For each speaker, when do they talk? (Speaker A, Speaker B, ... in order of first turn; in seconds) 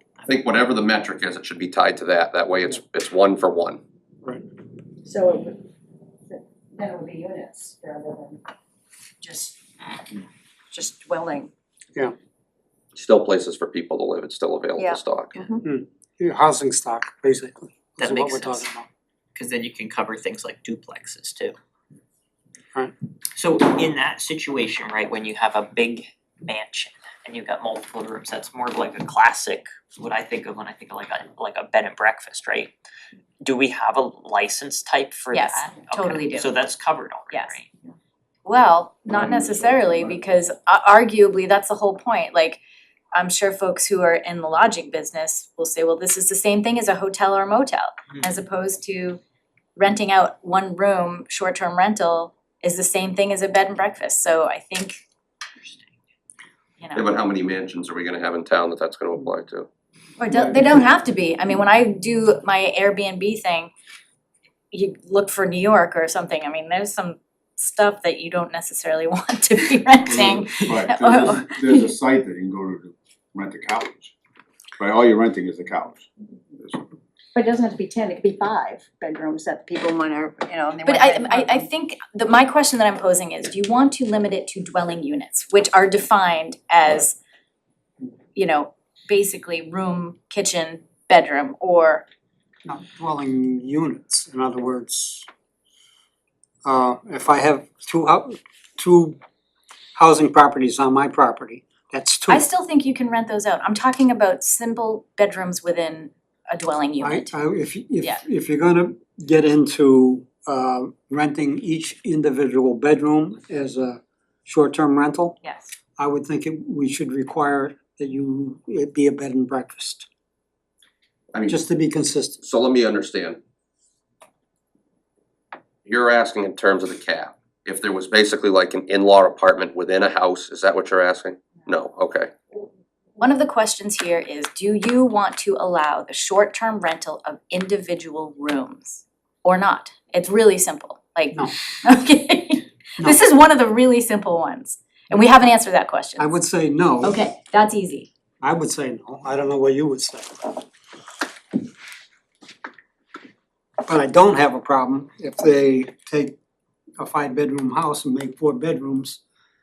Speaker A: 0.3-3.8, 12.9-15.3, 56.9-59.7, 121.3-121.6, 122.4-123.4, 125.8-132.3
Speaker B: 5.0-5.6, 6.3-8.4, 9.2-11.5, 14.8-15.6, 77.3-81.7
Speaker C: 15.6-18.9, 92.7-95.3, 96.6-99.2, 100.0-102.5, 107.0-115.4, 116.0-120.1, 121.5-122.4, 146.2-147.2, 148.4-150.6, 153.9-156.4, 157.0-159.2
Speaker D: 18.0-18.7, 19.4-21.6, 23.4-32.7, 33.4-37.7
Speaker E: 35.3-36.5, 38.5-42.6, 43.1-49.2, 49.8-55.0, 56.8-57.1, 60.2-63.7, 64.7-71.9, 80.8-87.2, 88.3-92.1, 102.3-107.3, 115.4-115.8, 133.2-146.3, 147.0-148.1
Speaker F: 70.0-74.1, 74.8-76.1